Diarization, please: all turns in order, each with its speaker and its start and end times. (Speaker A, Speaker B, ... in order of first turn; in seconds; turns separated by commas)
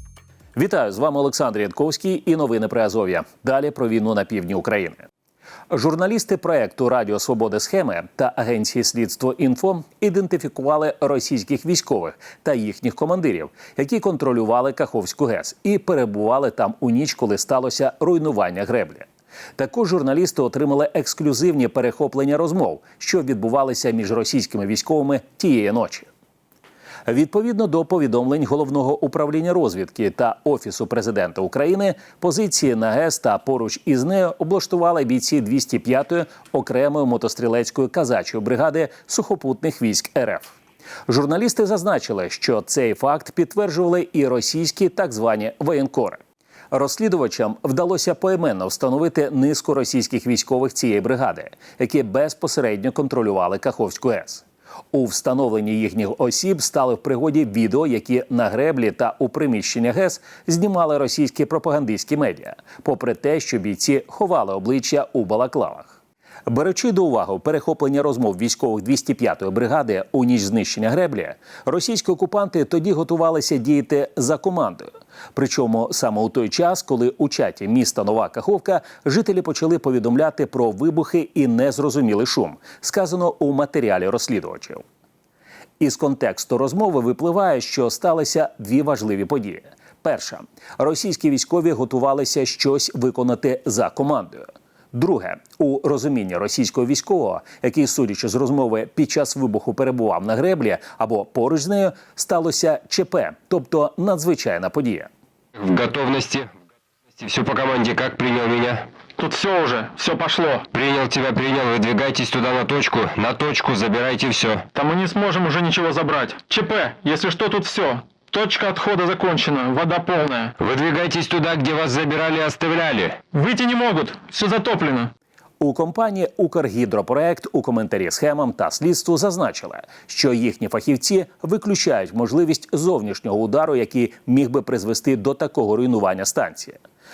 Speaker A: 0.6-5.1, Speaker A: 5.7-26.1, Speaker A: 27.1-40.5, Speaker A: 41.1-66.0, Speaker A: 66.5-84.8, Speaker A: 85.8-105.1, Speaker B: 105.6-106.6, Speaker B: 107.1-108.9, Speaker C: 109.2-110.7, Speaker B: 110.7-114.7, Speaker C: 114.7-120.5, Speaker B: 120.6-123.2, Speaker C: 123.3-125.1, Speaker A: 125.6-136.8